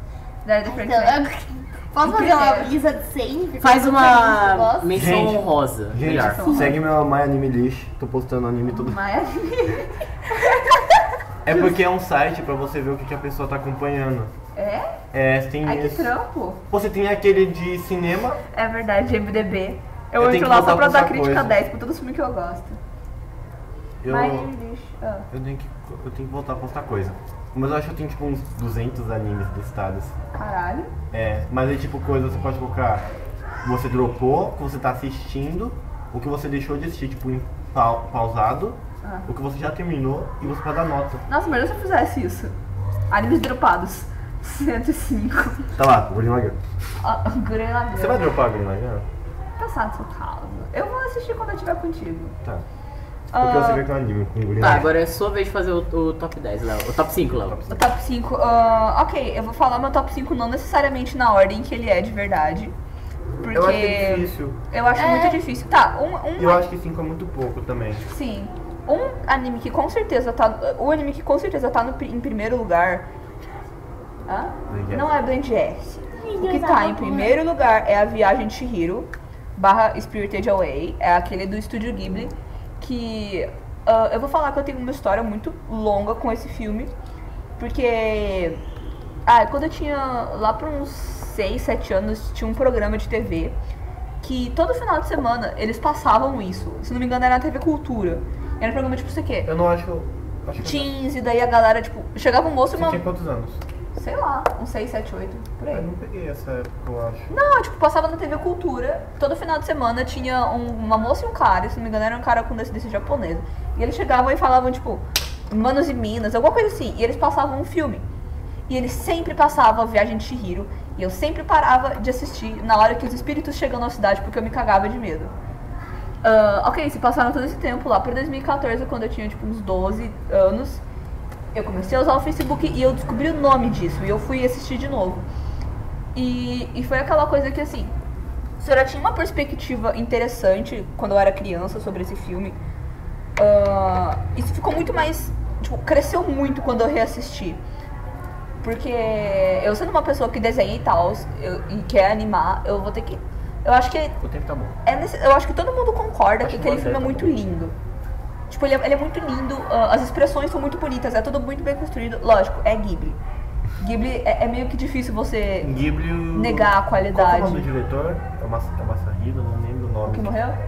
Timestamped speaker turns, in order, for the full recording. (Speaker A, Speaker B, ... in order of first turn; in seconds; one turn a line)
Speaker A: 0.5-1.2
Speaker B: 0.7-5.2
Speaker A: 2.0-2.7
Speaker C: 3.6-6.4
Speaker D: 4.9-9.0
Speaker A: 6.0-6.8
Speaker B: 6.4-6.8
Speaker A: 8.7-10.6
Speaker D: 11.4-14.3
Speaker A: 14.6-15.0
Speaker D: 15.1-16.1
Speaker A: 15.6-16.6
Speaker D: 16.7-18.4
Speaker A: 18.5-22.8
Speaker D: 20.2-21.6
Speaker D: 24.0-24.5
Speaker A: 24.1-25.3
Speaker D: 25.3-30.1
Speaker A: 30.3-30.9
Speaker D: 31.1-33.0
Speaker D: 33.6-41.2
Speaker A: 39.0-39.3
Speaker A: 41.3-42.5
Speaker A: 43.1-45.7
Speaker D: 45.8-46.6
Speaker A: 47.0-48.2
Speaker D: 47.9-49.1
Speaker A: 49.6-52.4
Speaker A: 53.3-53.9
Speaker D: 53.4-54.9
Speaker C: 54.6-57.6
Speaker D: 57.2-57.9
Speaker A: 57.7-62.8
Speaker A: 63.4-66.6
Speaker D: 63.5-64.6
Speaker B: 64.9-65.4
Speaker D: 66.4-68.0
Speaker A: 68.1-73.1
Speaker A: 74.3-86.9
Speaker D: 74.7-75.1
Speaker B: 76.2-77.4
Speaker A: 87.6-88.6
Speaker A: 89.3-93.6
Speaker A: 94.2-99.5
Speaker D: 99.5-100.9
Speaker A: 100.6-103.0
Speaker D: 102.7-103.6
Speaker A: 103.9-105.9
Speaker D: 105.7-107.3
Speaker A: 107.3-118.0
Speaker A: 118.7-125.3
Speaker A: 126.2-130.8
Speaker A: 131.5-135.3
Speaker A: 136.2-137.9
Speaker A: 138.6-142.6
Speaker A: 143.4-147.6
Speaker A: 148.6-154.2
Speaker D: 154.2-154.8
Speaker A: 154.8-157.8
Speaker D: 156.4-157.3
Speaker A: 158.5-163.2
Speaker A: 163.8-165.7
Speaker D: 165.6-170.3
Speaker A: 166.3-167.7
Speaker A: 170.1-170.6